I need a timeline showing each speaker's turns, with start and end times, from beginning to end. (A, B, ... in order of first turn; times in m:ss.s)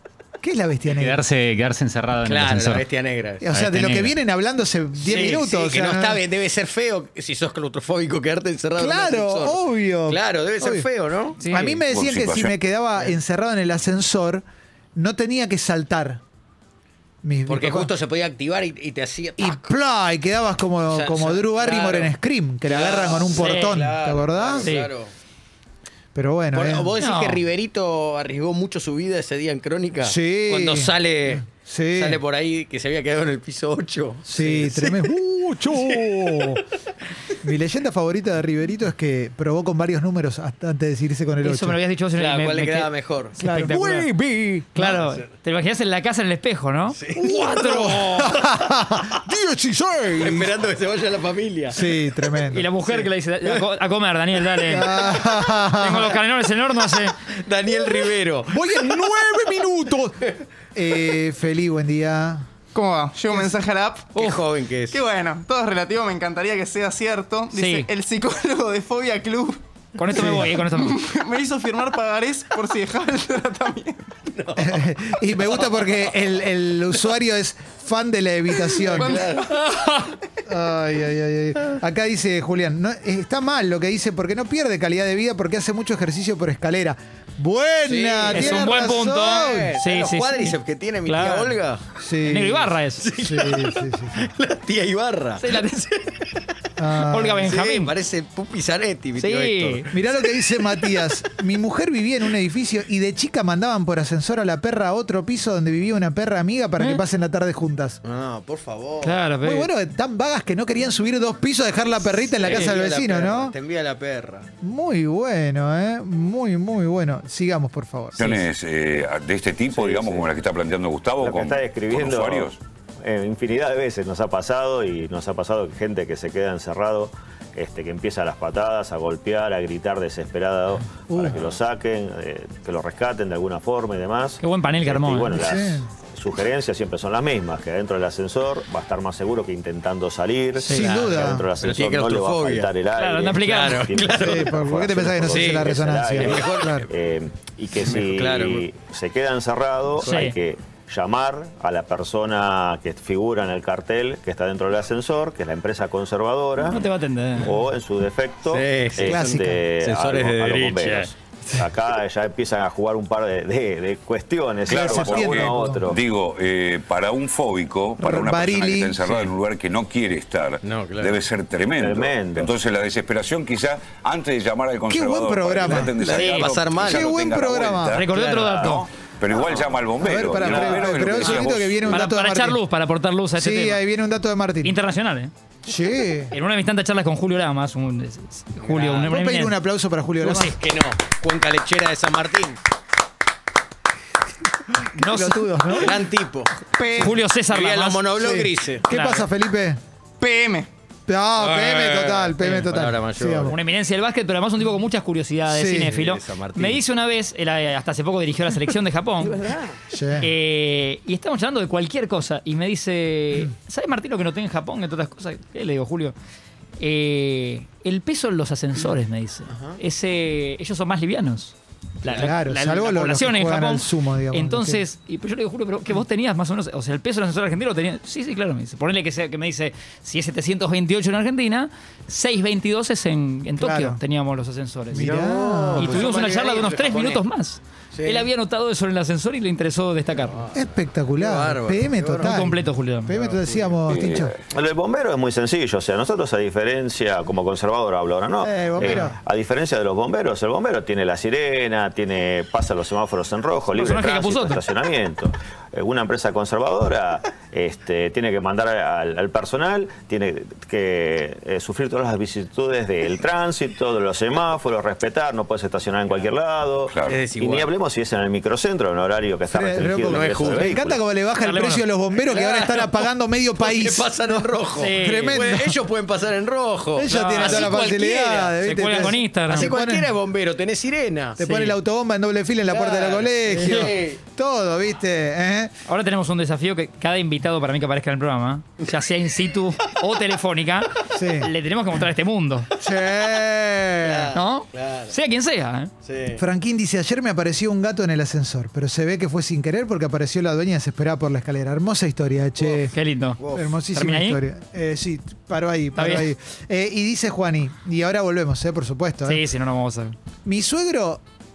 0:00.4-0:01.2 A
0:00.9-0:02.8 B
0:02.2-0:03.5 C
0:03.4-0:06.2 A
0:03.5-0:04.2 B
0:05.0-0:11.5 C
0:05.1-0:05.4 D
0:08.8-0:10.9 A
0:11.4-0:11.8 D
0:11.4-0:14.4 A
0:11.7-0:12.6 E
0:14.9-0:16.2 A
0:17.2-0:17.9 A
0:17.5-0:19.7 C
0:19.4-0:24.7 A
0:20.9-0:25.1 C
0:23.3-0:23.8 D
0:24.6-0:24.9 D
0:26.1-0:26.9 A
0:26.5-0:35.2 C
0:27.0-0:27.4 D
0:30.0-0:30.9 A
0:31.5-0:32.2 A
0:34.3-0:36.6 A
0:35.7-0:36.6 C
0:37.4-0:41.8 A
0:41.4-0:44.1 D
0:42.1-0:43.4 C
0:43.4-0:44.9 A
0:44.7-0:48.3 D
0:44.8-0:45.3 C
0:46.9-0:48.5 C
0:47.2-0:50.5 A
0:50.1-0:52.0 C
0:51.7-0:52.7 A
0:52.5-0:55.1 D
0:52.8-0:53.7 C
0:54.6-0:56.1 A
0:55.1-0:55.4 C
0:55.7-0:57.2 D
0:56.7-0:59.6 C
0:58.5-1:00.2 A
1:00.7-1:02.5 A
1:02.7-1:04.2 F
1:04.1-1:05.0 C
1:04.9-1:09.6 F
1:07.5-1:07.9 D
1:09.9-1:11.0 D
1:10.1-1:10.6 A
1:10.7-1:14.1 F
1:14.3-1:14.7 C
1:14.6-1:19.2 A
1:15.5-1:16.0 C
1:18.7-1:19.7 C
1:19.5-1:20.1 D
1:20.4-1:29.7 A
1:27.8-1:31.8 C
1:28.3-1:31.5 D
1:32.0-1:34.2 A
1:32.2-1:33.1 D
1:33.0-1:36.2 C
1:35.4-1:35.9 D
1:36.8-1:37.6 A
1:37.1-1:37.9 D
1:37.4-1:39.9 C
1:39.2-1:39.9 D
1:39.9-1:48.0 A
1:48.0-1:49.3 C
1:49.0-1:49.7 D
1:49.4-1:53.5 A
1:52.4-1:54.5 C
1:54.6-1:58.2 A
1:58.1-1:58.4 D
1:58.2-2:02.6 E
1:59.7-2:00.2 G
2:01.2-2:46.0 G
2:11.1-2:11.4 A
2:14.4-2:15.4 D
2:15.3-2:15.9 A
2:20.7-2:21.4 A
2:20.7-2:22.7 C
2:23.0-2:23.9 D
2:23.4-2:24.6 C
2:24.1-2:26.8 A
2:25.2-2:26.8 C
2:27.8-2:28.6 C
2:30.0-2:30.3 D
2:36.7-2:37.5 D
2:38.5-2:39.2 C
2:39.0-2:39.6 A
2:39.8-2:41.6 C
2:44.7-2:45.8 A
2:44.7-3:02.0 E
2:48.0-2:49.0 A
2:50.6-2:51.2 C
2:51.8-2:52.5 G
2:54.9-2:55.9 A
2:55.8-2:57.2 C
2:56.1-2:56.5 D
2:56.9-2:58.0 A
2:57.9-2:58.9 D
2:58.1-2:58.7 C
3:00.0-3:02.6 A
3:01.9-3:03.8 D
3:03.3-3:04.7 A
3:04.6-3:05.3 D
3:05.6-3:06.3 A
3:06.3-3:09.6 D
3:08.6-3:09.2 C
3:09.1-3:10.5 A
3:10.2-3:10.5 D
3:10.3-3:12.6 C
3:15.0-3:16.0 A
3:15.0-3:15.8 D
3:15.8-3:16.5 C
3:16.7-3:17.1 F
3:17.0-3:18.2 D
3:17.0-3:18.9 C
3:18.2-3:19.8 A
3:18.9-3:19.3 D
3:20.2-3:20.7 F
3:21.1-3:23.6 A
3:21.4-3:23.6 C
3:22.4-3:22.8 D
3:23.5-3:29.5 D
3:25.5-3:26.0 A
3:25.7-3:26.8 C
3:29.2-3:29.8 C
3:29.9-3:30.3 A
3:30.2-3:36.2 D
3:36.8-3:55.2 D
3:39.5-3:39.8 C
3:42.1-3:44.8 A
3:53.6-3:54.0 A
3:54.9-3:57.2 C
3:54.9-3:56.1 A
3:55.8-4:00.5 D
3:57.9-3:58.3 C
4:00.3-4:00.6 C
4:00.5-4:04.3 A
4:01.1-4:02.5 C
4:02.2-4:03.2 D
4:03.1-4:04.1 C
4:03.8-4:04.3 E
4:04.5-4:31.0 G
4:08.4-4:09.2 A
4:13.7-4:14.6 D
4:26.9-4:27.2 E
4:27.1-4:27.7 C
4:29.5-4:35.8 A
4:29.9-4:30.8 C
4:31.4-4:31.8 D
4:32.2-4:33.1 C
4:33.6-4:41.4 C
4:34.7-4:35.4 D
4:36.9-4:40.1 A
4:37.2-4:37.8 D
4:38.6-4:39.7 D
4:41.4-4:45.7 A
4:41.4-4:41.8 D
4:42.7-4:44.2 C
4:43.5-4:43.9 D
4:45.9-4:52.7 D
4:51.1-4:51.5 A
4:52.8-4:53.4 C
4:52.8-4:54.3 A
4:54.0-4:55.2 C
4:54.3-4:55.9 D
4:56.0-4:56.4 C
4:56.4-5:03.0 A
5:02.9-5:04.4 D
5:03.4-5:03.8 C
5:03.5-5:09.4 A
5:06.0-5:06.3 D
5:09.2-5:10.1 D
5:10.4-5:11.2 A